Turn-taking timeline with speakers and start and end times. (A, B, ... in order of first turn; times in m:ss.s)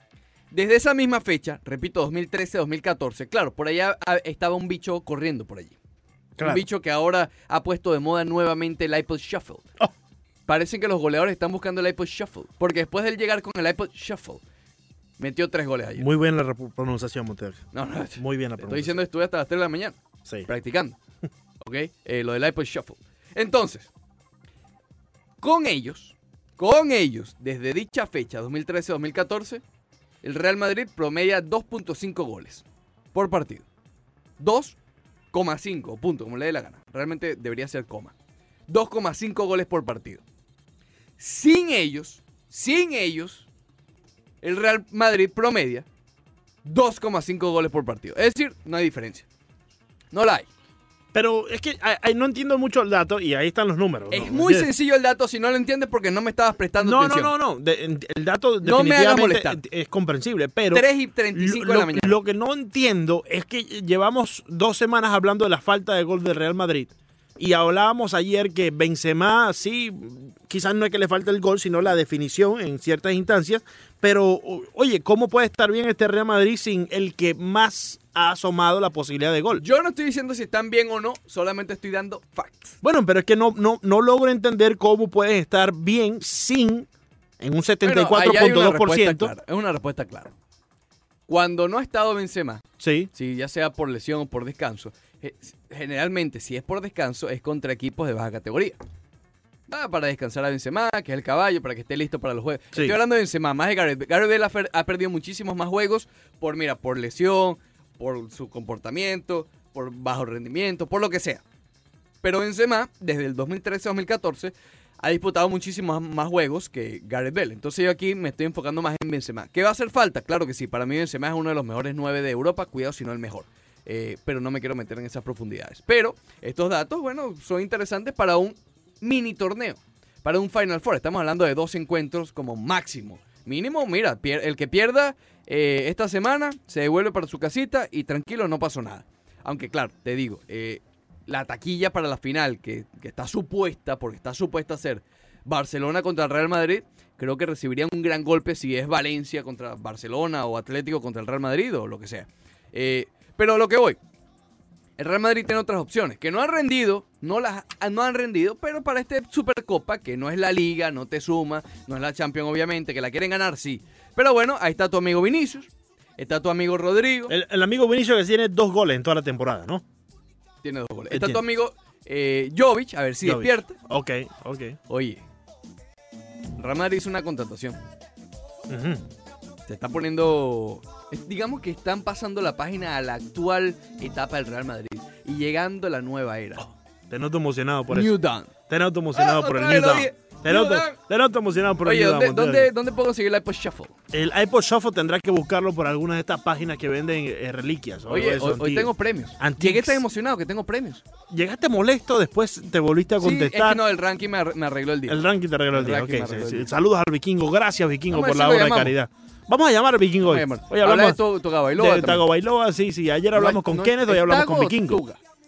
0:00.5-0:05.8 A
0:06.4-0:06.6 B
0:06.4-0:09.7 A
0:10.5-0:14.4 A
0:15.2-0:16.1 A
0:16.0-0:19.0 B
0:17.7-0:21.0 A
0:21.6-0:23.9 A
0:25.4-0:29.6 A
0:30.2-0:33.6 A
0:34.4-0:34.8 A
0:35.3-0:38.1 A
0:38.7-0:40.2 A
0:41.2-0:43.5 A
0:44.4-0:45.8 A
0:46.6-0:49.2 A
0:50.1-0:50.5 A
0:51.1-0:54.7 B
0:54.1-0:57.3 A
0:56.8-1:19.6 B
0:58.6-0:59.6 A
1:00.7-1:02.2 A
1:19.6-1:22.8 A
1:22.8-1:26.9 B
1:27.4-1:29.3 B
1:27.8-1:30.3 A
1:31.3-1:38.8 A
1:32.8-1:33.1 B
1:39.7-1:51.4 A
1:52.2-2:34.0 A
2:35.0-2:47.3 A
2:47.3-2:49.8 B
2:50.6-2:53.8 A
2:51.1-2:51.4 B
2:53.2-2:54.8 B
2:54.9-2:55.2 A
2:56.6-2:57.8 A
2:58.7-2:59.0 B
2:59.7-3:06.7 A
3:07.1-3:12.7 B
3:07.9-3:08.5 A
3:09.1-3:11.0 A
3:11.8-3:13.9 A
3:14.1-3:20.0 B
3:18.1-3:21.0 A
3:21.3-3:23.8 B
3:23.2-3:26.7 A
3:25.1-3:31.2 B
3:28.1-3:28.9 A
3:30.2-3:32.2 A
3:31.7-3:35.0 B
3:33.3-3:35.2 A